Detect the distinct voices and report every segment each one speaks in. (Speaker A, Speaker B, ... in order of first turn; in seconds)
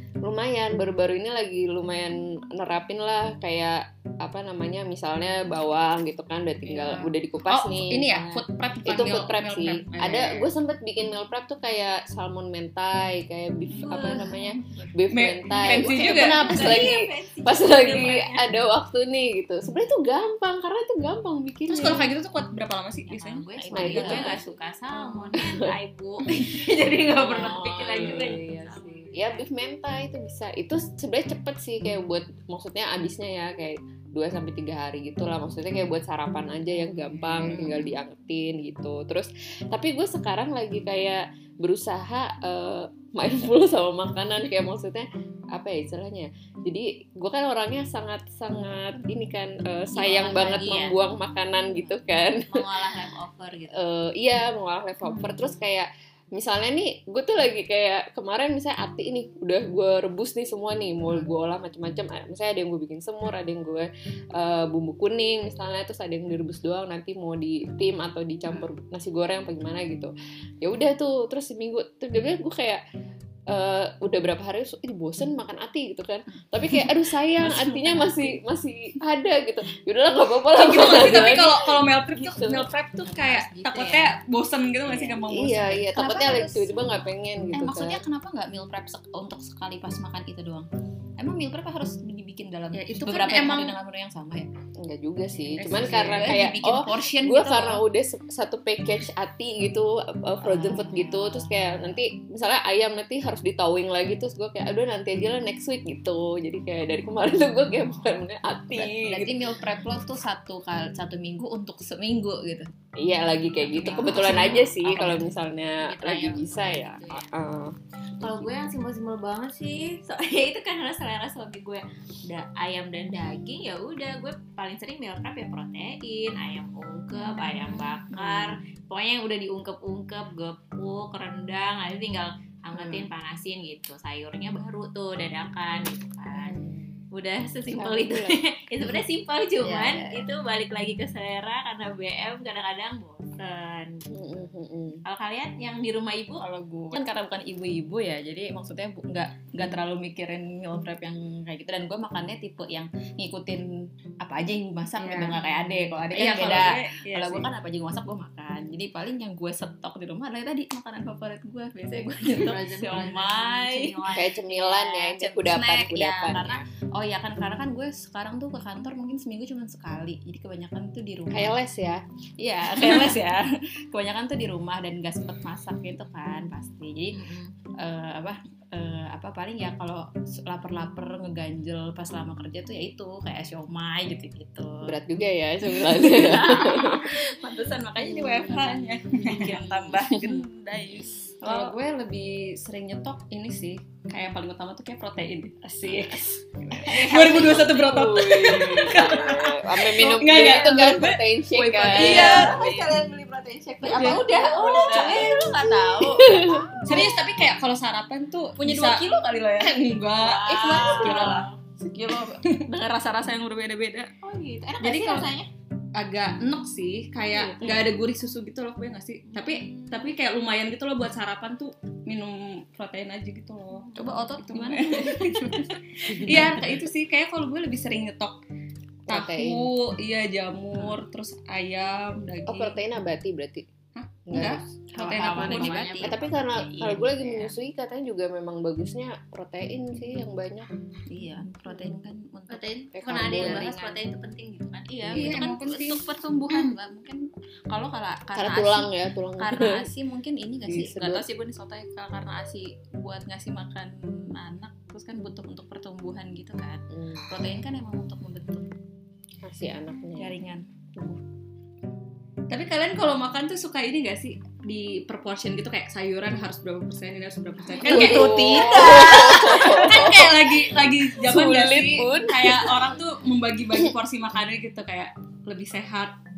Speaker A: 0.2-22.1, 23.7-24.4, 25.3-25.7, 27.1-52.7, 53.7-72.8, 73.5-82.7, 84.8-88.0, 94.8-109.4, 113.0-118.5, 128.0-128.5, 132.7-133.1, 136.3-136.9, 137.7-139.0, 144.1-145.0, 164.1-166.6, 171.3-172.0, 184.8-187.1, 188.0-188.4, 189.3-190.4, 197.1-202.6, 206.0-206.8, 210.5-211.3, 217.6-217.9, 226.1-226.5, 229.1-229.7, 232.5-233.7, 234.3-234.8, 235.3-240.7, 242.9-243.7, 248.3-249.8, 250.7-251.2, 256.9-257.2, 259.4-260.3, 267.8-273.0
Speaker B: 6.7-7.0, 13.8-14.8, 23.5-24.4, 77.4-78.3, 81.0-81.3, 82.4-84.1, 85.4-86.9, 87.5-90.7, 91.2-94.5, 95.5-97.8, 100.8-101.2, 108.7-112.7, 113.7-115.3, 115.9-116.8, 127.3-127.9, 139.6-140.0, 146.4-153.7, 154.2-164.3, 165.0-171.6, 172.4-185.0, 185.7-191.8, 195.7-196.2, 196.9-197.4, 198.8-199.3, 199.9-202.9, 203.8-207.2, 208.6-213.0, 217.4-217.8, 223.9-225.6, 226.2-226.6, 235.0-236.2, 241.1-244.0, 244.9-258.6, 260.2-261.2, 267.7-270.0
Speaker C: 7.5-10.4, 13.8-14.2, 15.1-16.4, 21.7-23.5, 80.5-85.8, 92.7-93.8, 95.6-96.3, 155.0-155.4, 156.1-157.4, 188.4-189.6, 191.4-202.8, 203.9-205.3, 206.8-214.1, 214.8-215.2, 215.9-228.4, 229.1-232.8, 233.9-235.9, 245.1-246.0, 262.5-276.1
Speaker D: 13.9-14.2, 15.5-18.4, 23.1-29.4, 49.9-51.0, 52.4-53.8, 113.9-114.5, 116.3-117.3, 118.2-136.6, 137.1-144.0, 145.0-146.4, 155.3-155.7, 162.3-165.2, 177.1-177.5, 196.8-197.9, 201.9-207.2, 210.2-211.6, 214.2-215.5, 219.3-220.1, 223.7-224.1, 234.9-237.5, 242.5-245.4, 267.8-269.9